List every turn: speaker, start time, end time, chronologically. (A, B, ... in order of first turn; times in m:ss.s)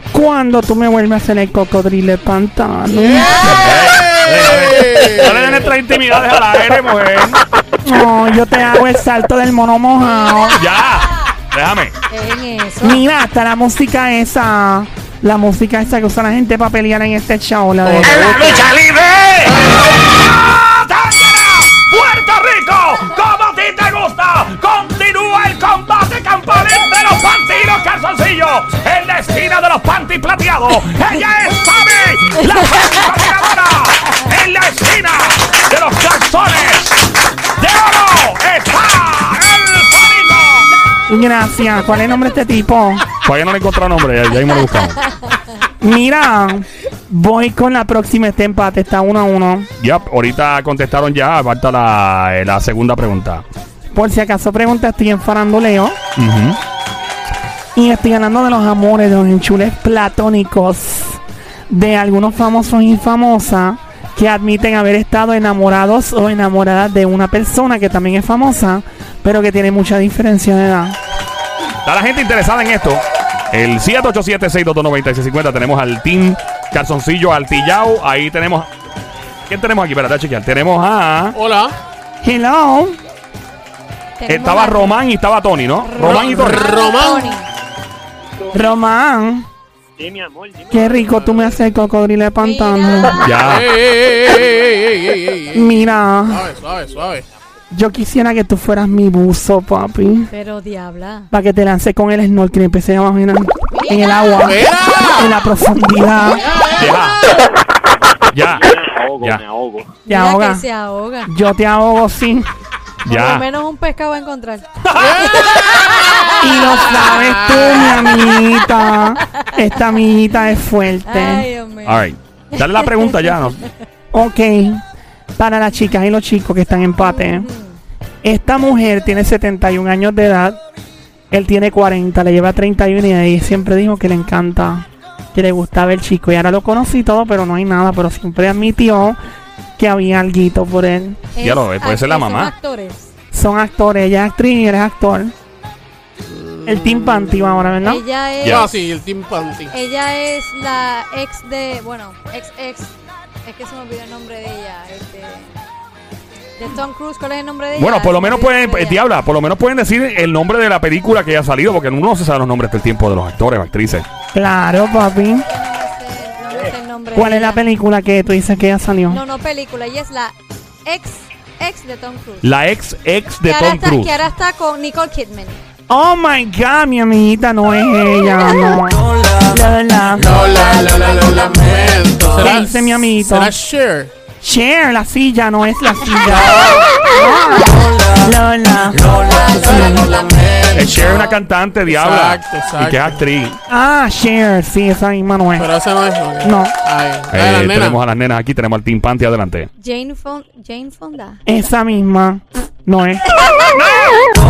0:00.1-0:03.5 A
0:02.9-0:05.7 B
0:03.1-0:03.8 C
0:03.6-0:07.4 D
0:07.8-0:10.6 A
0:10.0-0:11.3 C
0:10.5-0:11.9 D
0:12.1-0:13.0 C
0:12.8-0:18.3 A
0:17.8-0:18.7 B
0:18.3-0:37.0 D
0:19.5-0:19.8 B
0:37.6-0:40.7 D
0:41.1-0:43.1 A
0:43.2-0:45.0 D
0:45.8-0:49.7 A
0:49.8-0:53.4 D
0:53.9-0:56.0 A
0:56.2-0:56.6 D
0:57.7-1:11.0 A
1:11.8-1:18.7 D
1:19.5-1:21.4 D
1:21.3-1:21.7 B
1:22.2-1:23.0 A
1:24.2-1:25.0 C
1:24.3-1:26.7 D
1:25.8-1:27.4 C
1:26.0-1:27.4 B
1:28.5-1:29.4 A
1:30.0-1:31.6 E
1:30.7-1:33.2 A
1:32.4-1:33.4 C
1:33.2-1:33.8 D
1:33.3-1:37.2 B
1:35.5-1:36.5 A
1:37.7-1:40.3 A
1:40.3-1:41.3 C
1:41.3-1:46.5 A
1:43.7-1:44.5 C
1:44.4-1:45.3 B
1:46.3-1:47.4 B
1:46.8-1:47.2 D
1:48.3-1:49.4 D
1:48.5-1:49.9 E
1:50.0-1:51.3 C
1:50.0-1:50.6 A
1:51.2-1:52.4 A
1:53.0-1:53.4 D
1:53.0-1:56.6 C
1:54.9-1:58.2 B
1:56.4-2:01.5 A
1:57.8-1:59.5 C
2:01.0-2:03.7 C
2:01.8-2:03.6 D
2:04.1-2:04.8 A
2:05.4-2:07.5 A
2:07.0-2:07.8 C
2:08.2-2:10.6 A
2:11.3-2:19.2 A
2:19.8-2:21.3 A
2:21.3-2:23.1 C
2:21.4-2:22.5 D
2:23.3-2:25.3 A
2:26.2-2:27.7 B
2:26.6-2:28.0 A
2:27.8-2:28.8 C
2:28.4-2:28.7 D
2:28.4-2:29.7 B
2:29.7-2:35.5 C
2:36.6-2:39.0 C
2:37.8-2:44.0 D
2:44.3-2:45.4 A
2:45.5-2:47.6 C
2:47.1-2:49.2 A
2:49.1-2:50.3 C
2:50.8-2:52.5 C
2:52.4-2:54.1 D
2:53.5-2:55.6 C
2:55.9-3:00.4 A
3:00.2-3:04.1 B
3:00.4-3:02.0 C
3:02.4-3:03.5 A
3:04.4-3:10.1 A
3:06.3-3:07.0 B
3:09.0-3:11.4 C
3:09.6-3:11.2 B
3:10.7-3:13.6 D
3:11.9-3:13.2 B
3:13.7-3:15.7 A
3:15.6-3:18.0 B
3:16.4-3:16.7 A
3:17.3-3:19.7 D
3:19.8-3:21.4 C
3:21.4-3:23.4 A
3:23.7-3:24.3 D